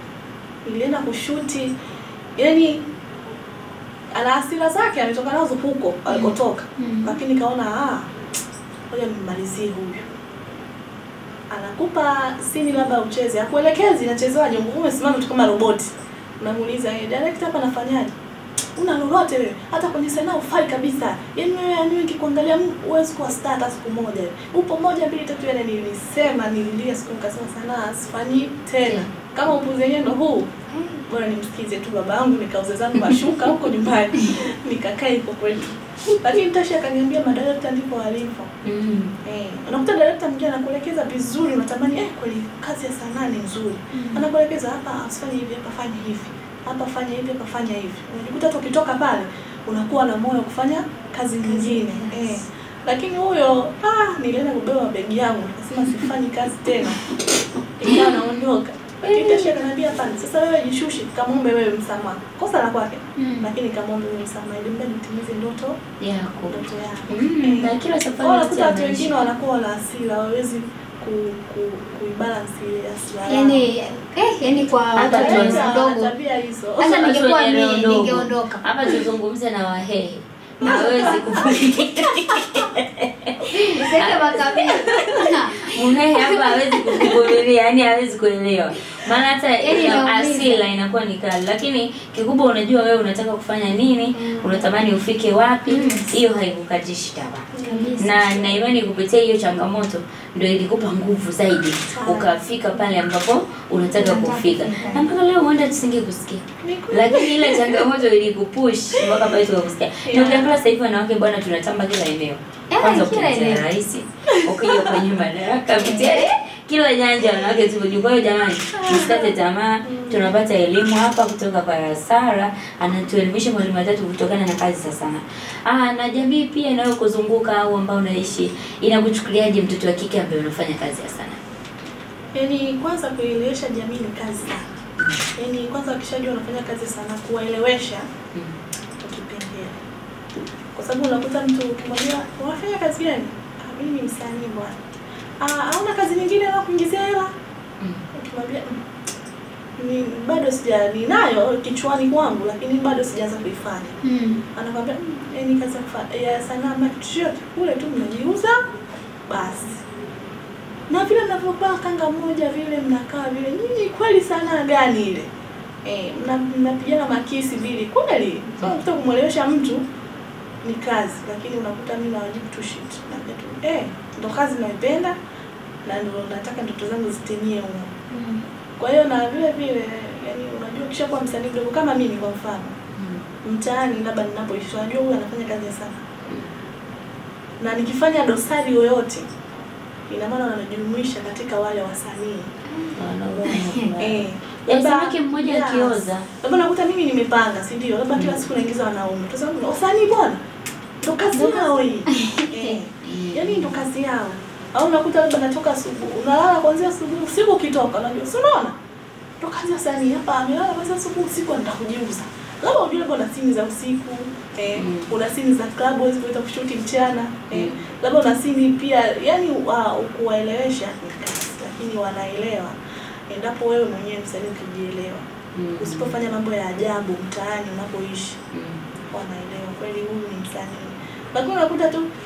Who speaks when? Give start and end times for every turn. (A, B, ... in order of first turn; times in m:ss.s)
0:00.6-0:01.7 A
0:02.4-0:02.8 A
0:04.1-0:08.1 A
0:06.8-0:07.1 B
0:08.9-0:10.0 A
0:11.5-0:18.1 A
0:18.8-0:38.5 A
0:38.6-0:39.1 C
0:39.2-0:57.1 A
0:43.9-0:44.2 B
0:51.5-0:52.3 B
0:57.8-1:05.8 A
1:03.2-1:03.5 B
1:06.0-1:06.6 C
1:06.5-1:13.7 A
1:07.1-1:09.2 C
1:13.2-1:16.1 B
1:14.9-1:15.7 C
1:15.0-1:17.1 A
1:16.8-1:19.0 B
1:16.8-1:24.9 C
1:20.6-1:21.1 A
1:20.6-1:21.4 B
1:23.4-1:27.2 B
1:24.9-1:25.3 A
1:25.5-1:37.5 C
1:29.6-1:30.6 B
1:34.2-1:34.7 B
1:35.7-1:36.1 B
1:37.6-1:38.6 A
1:37.6-1:38.2 B
1:38.0-2:11.4 C
1:41.9-1:42.3 A
1:43.9-1:45.1 B
1:46.6-1:47.8 A
1:50.0-1:50.5 A
1:52.7-1:53.6 B
1:54.6-1:55.0 A
1:55.8-1:56.3 B
1:58.7-2:00.3 A
2:12.3-2:14.7 A
2:15.4-2:18.1 A
2:19.0-2:19.8 A
2:20.8-2:24.8 A
2:25.4-2:27.3 A
2:28.1-2:28.8 A
2:29.8-2:34.0 A
2:34.0-2:34.4 B
2:34.5-2:38.7 A
2:39.3-2:39.8 A
2:40.9-2:45.3 A
2:45.8-2:49.8 A
2:50.6-2:55.2 A
2:55.8-2:57.9 A
2:58.1-2:58.4 B
2:58.8-3:02.8 A
3:03.0-3:03.2 C
3:03.4-3:06.0 A
3:07.6-3:09.3 A
3:10.1-3:12.5 A
3:12.9-3:16.2 C
3:13.5-3:13.9 B
3:14.0-3:20.4 A
3:18.2-3:18.4 C
3:21.0-3:28.7 A
3:21.3-3:22.8 B
3:23.0-3:23.8 C
3:29.4-3:42.8 A
3:34.8-3:35.1 C
3:37.5-3:37.8 C
3:43.3-3:45.2 A
3:45.6-3:46.2 C
3:45.8-3:48.4 A
3:48.5-3:48.8 C
3:49.1-3:52.0 A